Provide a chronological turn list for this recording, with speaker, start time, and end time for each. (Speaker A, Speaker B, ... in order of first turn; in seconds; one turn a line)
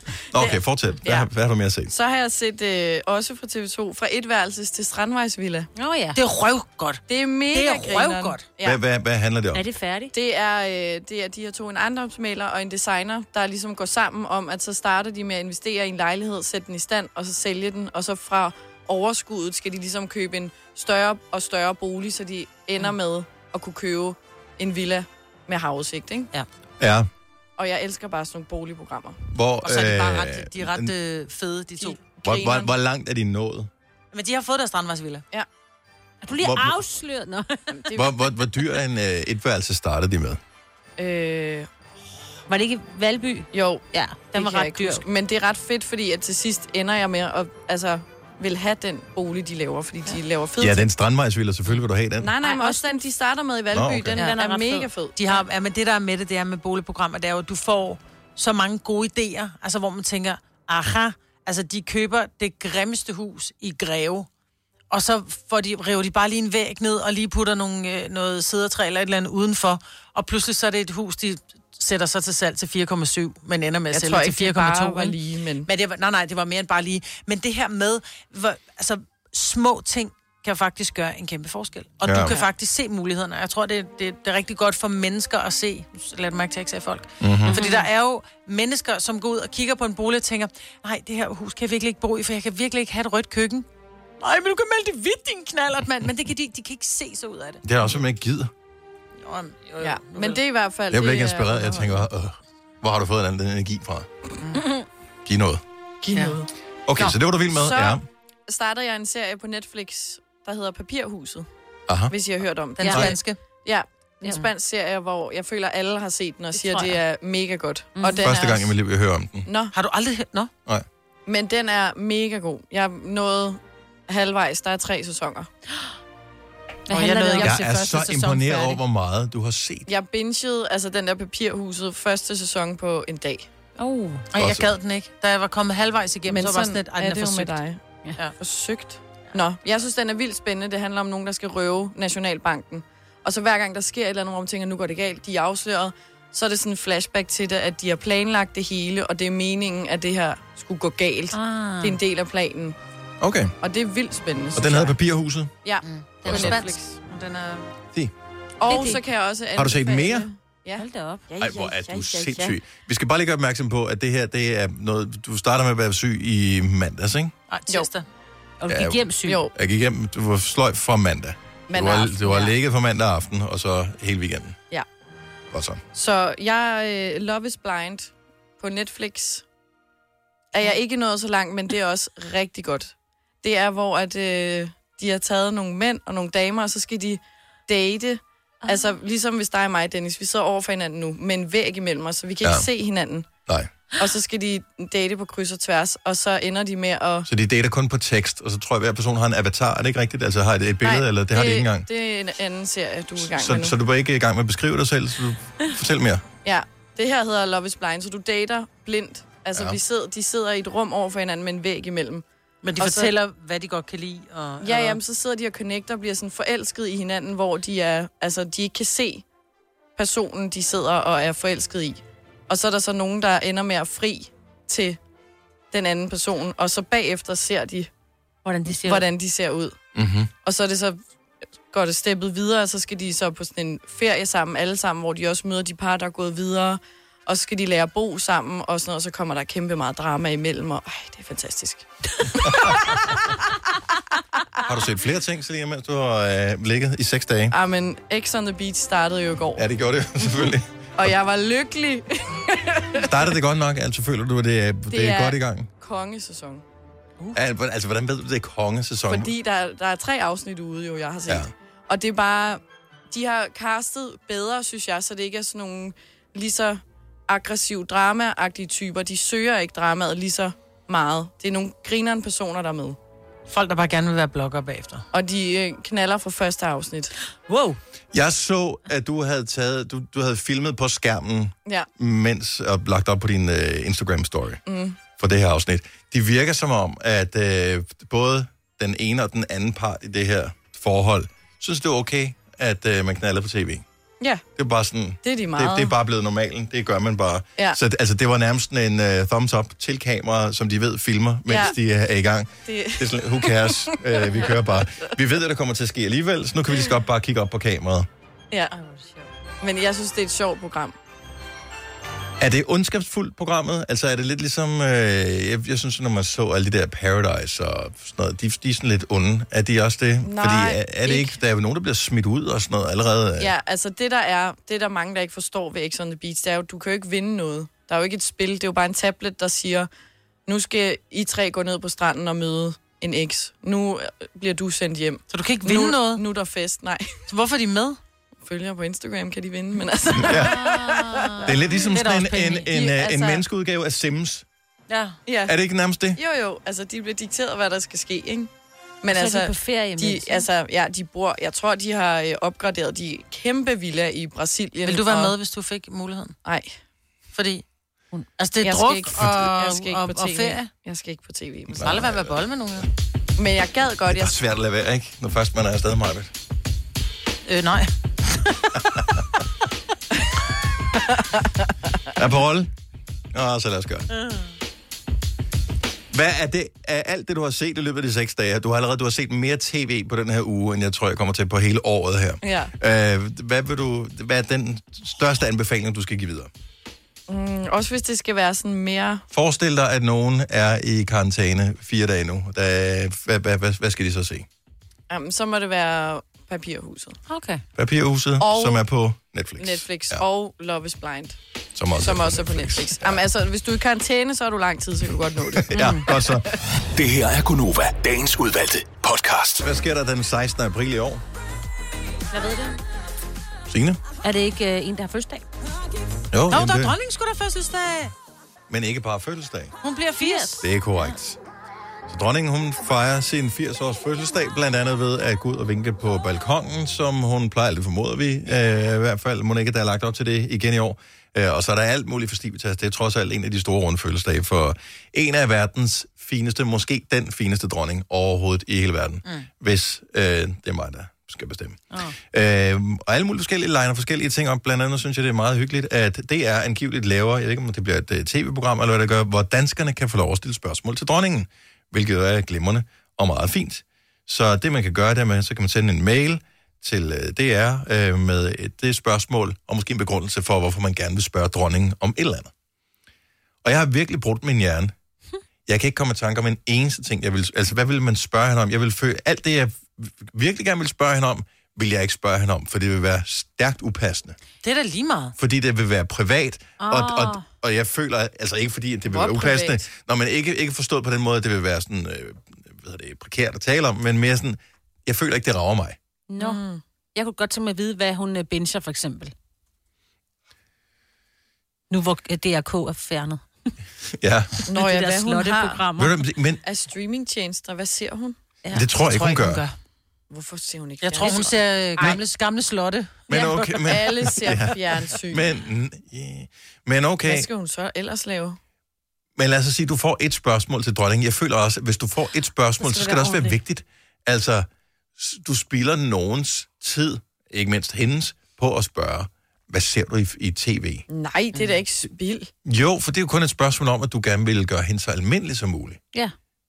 Speaker A: 0.3-1.9
Speaker B: 1.9-5.7
Speaker C: 5.8-6.2
Speaker D: 6.2-8.4
Speaker B: 7.1-8.8
Speaker A: 8.6-9.6
Speaker C: 9.5-10.1
Speaker B: 10.1-26.3
Speaker A: 26.8-27.1
Speaker B: 27.6-29.2
Speaker A: 29.3-30.9
Speaker D: 29.6-32.0
Speaker B: 31.8-32.7
Speaker A: 32.2-33.7
Speaker D: 34.1-35.2
Speaker C: 36.2-37.9
Speaker A: 36.4-36.8
Speaker B: 37.7-38.1
Speaker A: 37.9-40.4
Speaker B: 41.0-41.7
Speaker C: 42.5-45.0
Speaker B: 43.5-50.9
Speaker A: 50.6-52.3
Speaker B: 52.2-55.4
Speaker C: 52.4-53.0
Speaker A: 53.7-54.2
Speaker C: 54.1-54.9
Speaker D: 55.2-64.3
Speaker D: 64.9-93.7
Speaker B: 73.9-75.7
Speaker A: 82.0-82.3
Speaker A: 87.2-87.6
Speaker C: 87.5-87.9
Speaker D: 94.2-97.6
Speaker A: 97.6-98.5
Speaker D: 99.2-100.4
Speaker B: 99.8-102.0
Speaker A: 100.9-104.1
Speaker A: 105.2-105.6
Speaker B: 106.0-106.5
Speaker A: 106.9-108.0
Speaker B: 107.5-111.5
Speaker A: 111.9-112.1
Speaker B: 112.1-118.7
Speaker D: 112.8-113.4
Speaker C: 112.8-113.1
Speaker C: 116.6-117.0
Speaker C: 118.0-118.3
Speaker A: 118.2-119.5
Speaker B: 119.5-119.7
Speaker D: 119.7-120.5
Speaker B: 121.3-125.5
Speaker C: 126.9-127.6
Speaker D: 126.9-128.8
Speaker A: 127.4-129.9
Speaker B: 129.9-133.5
Speaker C: 133.8-134.2
Speaker D: 134.3-137.6
Speaker A: 134.4-134.7
Speaker B: 136.3-137.8
Speaker B: 138.4-152.8
Speaker C: 151.3-152.0
Speaker A: 153.2-153.5
Speaker B: 153.6-155.0
Speaker A: 154.6-155.5
Speaker B: 155.6-157.0
Speaker D: 156.2-157.7
Speaker C: 156.2-156.7
Speaker A: 156.2-156.6
Speaker B: 158.6-160.8
Speaker C: 158.7-159.0
Speaker A: 159.6-160.3
Speaker C: 160.8-162.6
Speaker A: 161.4-167.3
Speaker D: 167.5-168.1
Speaker C: 168.6-169.4
Speaker A: 168.7-174.6
Speaker B: 169.2-169.5
Speaker B: 171.7-172.5
Speaker A: 175.5-175.8
Speaker B: 175.9-179.4
Speaker B: 180.5-193.3
Speaker B: 194.0-197.3
Speaker A: 197.3-201.9
Speaker B: 200.8-203.8
Speaker A: 203.2-206.2
Speaker B: 206.4-212.2
Speaker D: 212.6-215.0
Speaker B: 212.8-213.1
Speaker B: 214.6-219.2
Speaker B: 220.0-225.0
Speaker B: 225.7-227.9
Speaker C: 228.4-229.1
Speaker B: 228.8-229.8
Speaker A: 229.9-230.3
Speaker B: 230.4-231.0
Speaker B: 231.7-243.1
Speaker A: 242.4-243.0
Speaker A: 244.6-247.6
Speaker B: 247.5-249.7
Speaker A: 249.6-250.7
Speaker B: 251.0-253.1
Speaker A: 253.0-255.7
Speaker B: 254.9-256.6
Speaker A: 257.3-259.3
Speaker B: 259.1-273.0
Speaker D: 273.5-275.1
Speaker B: 275.1-277.1
Speaker D: 277.5-277.8
Speaker A: 278.1-284.6
Speaker B: 284.7-285.0
Speaker A: 285.2-293.8
Speaker A: 294.6-308.1
Speaker B: 295.2-295.9
Speaker B: 301.5-301.8
Speaker B: 302.6-305.1
Speaker C: 308.8-309.2
Speaker B: 309.6-310.9
Speaker A: 312.4-323.5
Speaker B: 320.2-321.4
Speaker B: 323.4-329.9
Speaker B: 330.5-337.2
Speaker D: 335.3-336.2
Speaker D: 337.3-338.0
Speaker B: 338.5-341.3
Speaker A: 340.1-340.6
Speaker C: 340.3-341.5
Speaker A: 341.4-344.5
Speaker D: 341.8-342.7
Speaker B: 342.7-343.4
Speaker D: 344.9-345.2
Speaker B: 345.3-345.5
Speaker A: 345.5-346.2
Speaker B: 346.1-348.5
Speaker B: 349.0-355.3
Speaker C: 349.1-350.5
Speaker D: 354.9-356.4
Speaker B: 356.4-356.8
Speaker D: 357.3-357.6
Speaker D: 358.4-360.7
Speaker B: 358.6-361.9
Speaker A: 361.8-362.4
Speaker D: 361.8-362.9
Speaker B: 363.4-364.4
Speaker A: 364.1-366.3
Speaker D: 367.5-367.9
Speaker A: 372.1-372.7
Speaker A: 373.3-374.1
Speaker A: 376.1-386.5
Speaker B: 382.4-382.7
Speaker B: 387.3-389.2
Speaker A: 389.3-394.5
Speaker B: 395.1-397.2
Speaker C: 397.3-397.6
Speaker A: 397.8-400.2
Speaker B: 398.4-398.9
Speaker B: 399.6-401.4
Speaker A: 401.8-403.2
Speaker B: 402.0-406.3
Speaker A: 405.6-406.5
Speaker E: 406.9-409.6
Speaker A: 409.6-411.2
Speaker C: 412.3-412.8
Speaker A: 413.7-414.0
Speaker C: 414.2-415.5
Speaker A: 416.3-417.0
Speaker D: 416.5-418.1
Speaker A: 418.7-419.8
Speaker D: 419.8-420.7
Speaker C: 420.2-421.1
Speaker A: 420.6-421.4
Speaker A: 422.1-441.8
Speaker A: 442.3-462.5
Speaker A: 463.6-464.9
Speaker A: 465.7-474.4
Speaker D: 474.6-475.4
Speaker A: 475.4-486.0
Speaker C: 476.8-477.4
Speaker B: 479.1-479.9
Speaker C: 486.3-486.6
Speaker B: 486.4-486.8
Speaker C: 487.1-489.3
Speaker C: 491.9-493.4
Speaker A: 494.2-494.6
Speaker B: 494.7-495.8
Speaker C: 494.7-496.2
Speaker A: 496.0-496.6
Speaker B: 496.6-498.4
Speaker A: 498.7-499.6
Speaker D: 499.0-499.7
Speaker B: 500.3-502.1
Speaker D: 501.0-503.9
Speaker A: 503.3-507.5
Speaker B: 503.9-505.5
Speaker B: 507.2-508.6
Speaker A: 509.4-521.0
Speaker C: 512.9-513.5
Speaker B: 521.1-522.5
Speaker A: 522.6-526.0